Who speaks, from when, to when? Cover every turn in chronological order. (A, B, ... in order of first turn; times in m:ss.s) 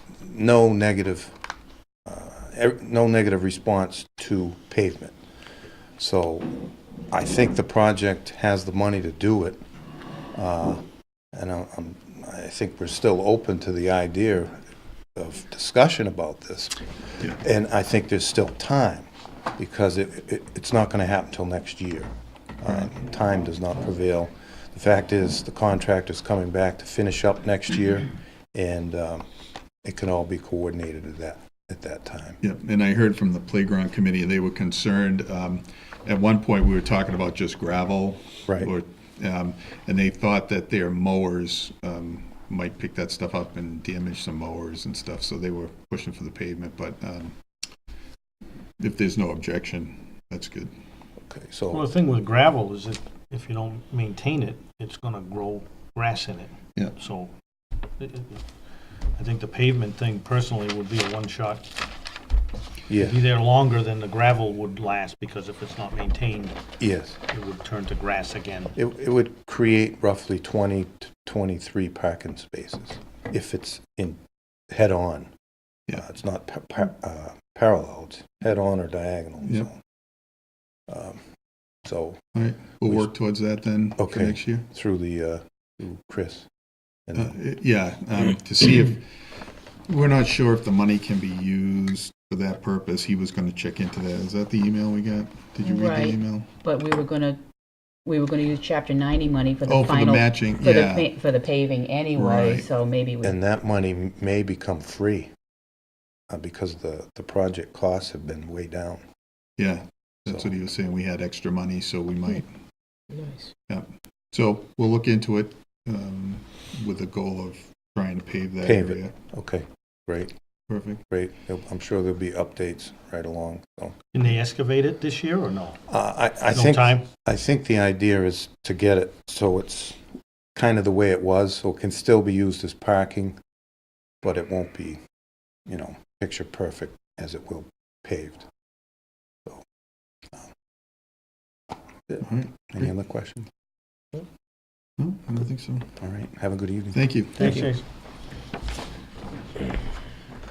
0:00.2-0:01.4 A
0:02.0-0:05.2 A
0:06.0-0:06.5 A
0:07.1-0:09.6 A
0:10.3-0:10.8 A
0:11.3-0:14.6 A
0:15.2-0:29.3 A
0:29.8-0:32.4 A
0:32.4-0:47.4 B
0:48.8-0:50.7 B
0:51.2-0:51.9 A
0:51.7-0:57.3 C
0:58.0-0:58.4 C
0:59.2-1:01.6 C
1:02.9-1:03.2 A
1:03.0-1:06.6 C
1:06.8-1:07.2 A
1:07.3-1:08.8 C
1:08.8-1:15.3 A
1:16.0-1:19.8 A
1:20.9-1:21.2 A
1:21.8-1:22.2 A
1:22.3-1:24.7 B
1:24.0-1:26.5 A
1:27.1-1:27.3 A
1:27.2-1:29.2 B
1:29.9-1:36.5 B
1:35.6-1:37.4 D
1:38.0-1:43.4 D
1:39.7-1:41.1 B
1:42.2-1:42.7 B
1:43.2-1:45.3 A
1:46.3-1:49.0 A
1:49.6-1:52.5 B
1:53.7-1:59.2 B
1:58.6-2:00.3 A
2:00.7-2:01.0 B
2:01.1-2:04.3 A
2:04.1-2:05.8 C
2:05.9-2:10.0 A
2:06.5-2:07.1 C
2:10.6-2:13.4 A
2:14.2-2:15.0 A
2:15.7-2:18.5 A
2:22.1-2:23.5 A
2:22.2-2:22.7 B
2:25.0-2:25.9 B
2:26.0-2:27.6 A
2:26.9-2:27.7 B
2:27.4-2:27.8 C